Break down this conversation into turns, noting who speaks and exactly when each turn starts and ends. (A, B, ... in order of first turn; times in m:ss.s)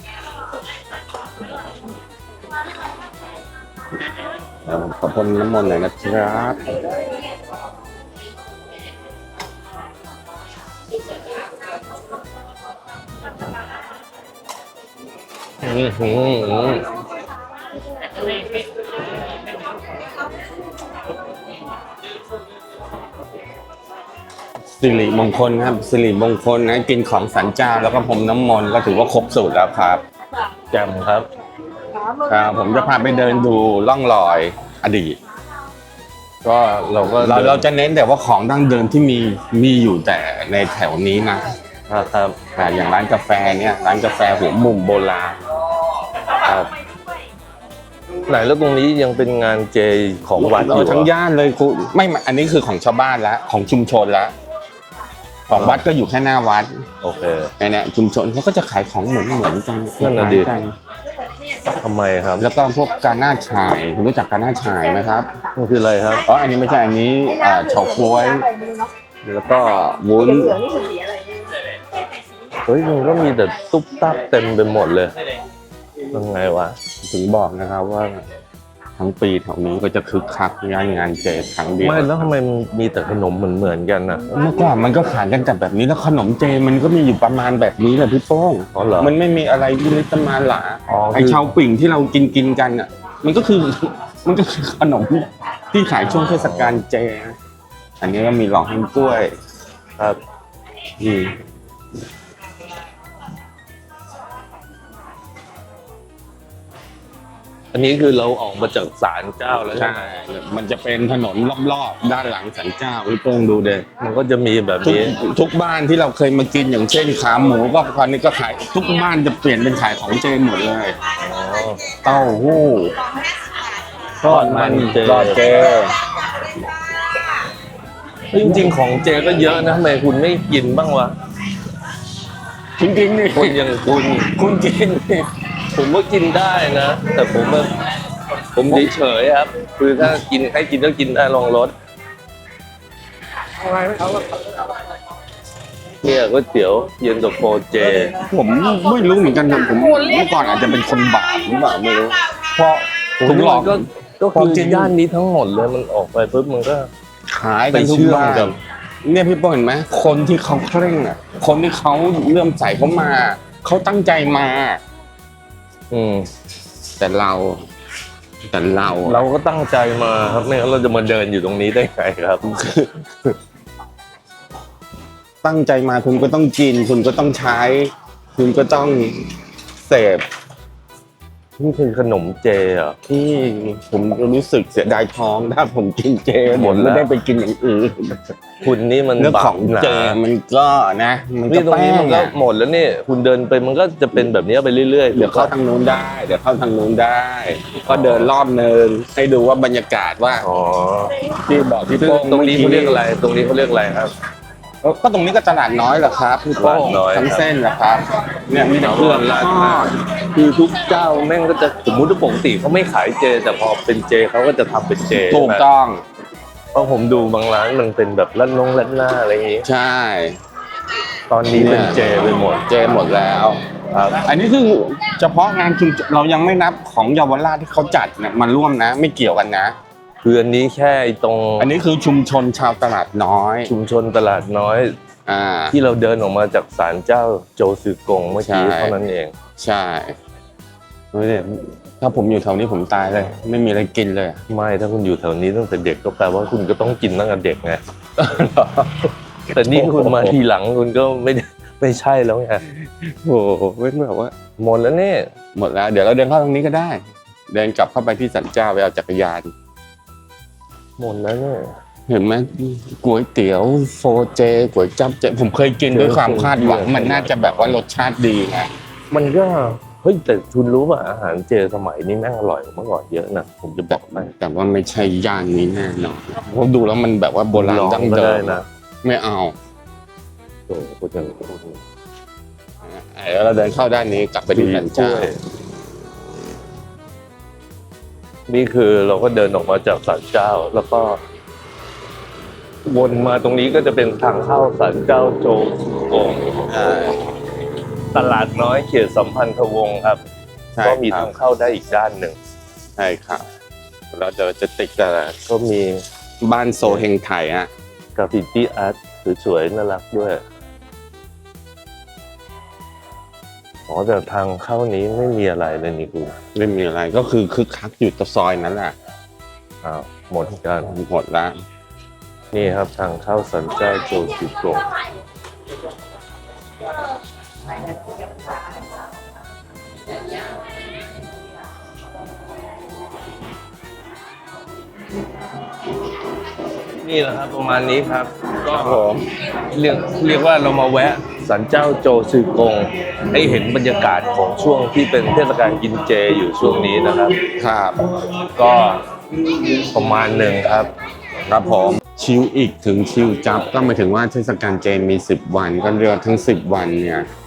0:04.6-0:06.8 A
0:15.6-0:16.9 B
0:24.8-0:30.0 A
0:30.7-0:31.3 B
0:32.2-0:35.2 A
0:36.4-0:37.7 B
0:37.2-0:41.5 A
0:41.9-0:42.4 B
0:42.6-0:45.4 A
0:48.3-0:51.1 B
0:50.4-0:54.3 A
0:55.5-0:56.8 A
0:55.5-0:55.8 B
0:57.0-0:57.5 B
0:57.6-1:00.8 A
1:00.0-1:00.5 B
1:01.8-1:02.5 B
1:02.4-1:05.3 A
1:05.6-1:06.2 B
1:06.2-1:08.5 A
1:07.5-1:08.9 C
1:09.2-1:10.6 A
1:10.5-1:11.4 C
1:12.7-1:15.1 B
1:16.1-1:16.8 B
1:17.0-1:18.2 A
1:19.0-1:22.3 A
1:21.8-1:24.3 B
1:24.3-1:37.4 A
1:28.7-1:29.1 B
1:30.9-1:31.6 B
1:36.1-1:36.8 B
1:38.0-1:39.3 A
1:47.7-1:50.1 B
1:49.7-1:53.9 A
1:54.0-1:55.1 B
1:54.8-2:01.0 A
2:01.2-2:02.0 B
2:02.0-2:03.0 A
2:04.2-2:06.0 A
2:04.2-2:05.5 B
2:08.3-2:11.2 B
2:12.8-2:15.3 A
2:13.3-2:14.3 B
2:15.7-2:17.7 B
2:18.5-2:21.7 B
2:26.0-2:28.1 B
2:28.1-2:35.0 A
2:33.2-2:36.9 B
2:37.3-2:44.8 A
2:37.7-2:38.6 B
2:45.9-2:46.3 B
2:47.0-2:47.7 A
2:48.5-2:49.2 A
2:49.0-2:52.5 B
2:52.5-2:52.9 A
2:55.4-2:59.3 A
2:59.8-3:00.3 A
3:01.6-3:03.0 B
3:03.1-3:08.3 A
3:06.5-3:07.1 B
3:08.6-3:10.2 B
3:09.2-3:12.4 A
3:11.5-3:15.5 B
3:15.1-3:20.5 A
3:17.9-3:18.3 B
3:20.4-3:21.1 B
3:21.4-3:23.0 A
3:22.0-3:24.1 B
3:24.8-3:29.9 A
3:26.6-3:27.4 B
3:28.8-3:35.6 B
3:35.2-3:36.0 A
3:36.7-3:39.7 B
3:39.6-3:40.4 A
3:41.3-3:42.8 B
3:41.5-3:49.8 A
3:43.9-3:44.2 B
3:50.2-3:51.7 B
3:51.6-3:53.7 A
3:53.7-3:55.0 B
3:55.3-3:55.8 A
3:55.7-3:59.4 B
3:58.4-3:59.0 A
3:59.6-4:00.2 A
4:01.1-4:04.4 A
4:04.5-4:07.8 B
4:08.2-4:10.4 A
4:09.5-4:12.6 B
4:12.7-4:14.3 A
4:14.6-4:15.3 B
4:15.5-4:19.5 A
4:21.0-4:21.8 B
4:22.1-4:28.7 A
4:25.9-4:27.8 B
4:29.1-4:34.3 B
4:33.9-4:39.6 A
4:37.5-4:38.7 B
4:40.7-4:41.8 A
4:42.8-4:45.3 A
4:44.6-4:45.4 B
4:48.5-4:51.2 B
4:52.9-4:56.6 B
4:56.7-4:57.2 A
4:58.1-5:00.2 B
5:00.8-5:01.3 A
5:00.8-5:02.4 B
5:03.0-5:03.4 A
5:04.1-5:05.4 A
5:05.5-5:06.0 B
5:06.4-5:07.7 A
5:08.2-5:10.4 B
5:13.9-5:16.4 B
5:16.5-5:19.0 A
5:19.8-5:21.0 B
5:20.9-5:21.6 A
5:22.5-5:24.8 B
5:37.0-5:39.1 B
5:38.7-5:39.2 A
5:39.7-5:47.4 B
5:43.4-5:43.6 A
5:47.4-5:48.0 A
5:48.6-5:49.0 B
5:49.7-5:50.9 B
5:51.5-5:57.3 A